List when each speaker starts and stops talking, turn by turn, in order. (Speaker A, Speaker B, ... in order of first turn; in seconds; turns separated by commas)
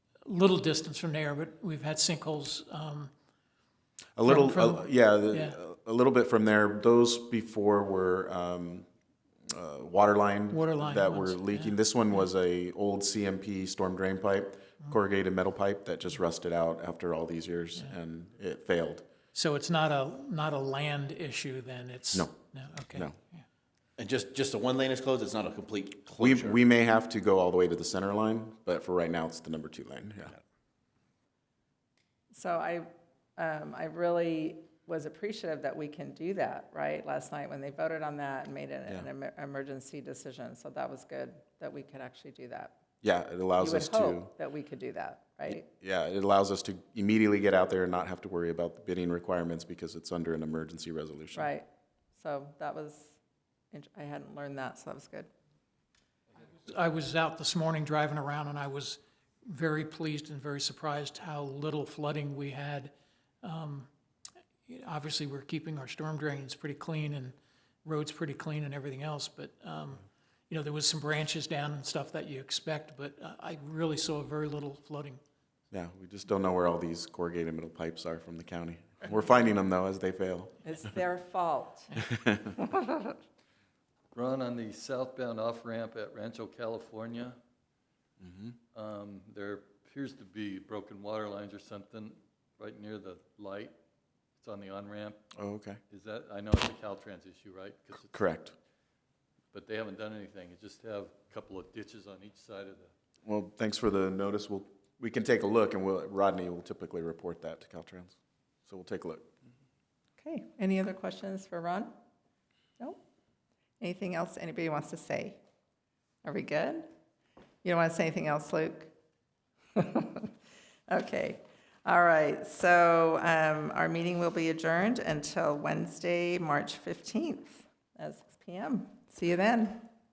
Speaker A: 0.2-3.1, Speaker B: 4.2-8.9, Speaker A: 4.2-5.6, Speaker B: 9.5-19.0, Speaker A: 10.5-12.2, Speaker A: 19.3-23.4, Speaker B: 22.9-23.2, Speaker C: 24.0-26.6, Speaker B: 26.2-30.3, Speaker D: 32.3-42.8, Speaker B: 43.0-44.3, Speaker D: 43.6-45.6, Speaker B: 45.6-51.5, Speaker D: 51.3-53.2, Speaker D: 53.7-55.3, Speaker A: 56.6-63.9, Speaker A: 64.7-75.2, Speaker B: 75.7-80.5, Speaker D: 80.6-82.0, Speaker E: 84.1-87.4, Speaker B: 88.2-88.5, Speaker E: 88.7-93.7, Speaker E: 94.4-95.2, Speaker B: 95.3-95.8, Speaker E: 95.9-98.1, Speaker B: 98.1-98.5, Speaker E: 99.5-102.9, Speaker B: 103.2-109.3, Speaker D: 110.2-111.9, Speaker D: 113.8-115.4, Speaker D: 116.2-116.8, Speaker D: 117.6-118.9, Speaker D: 119.7-120.3, Speaker D: 120.9-129.9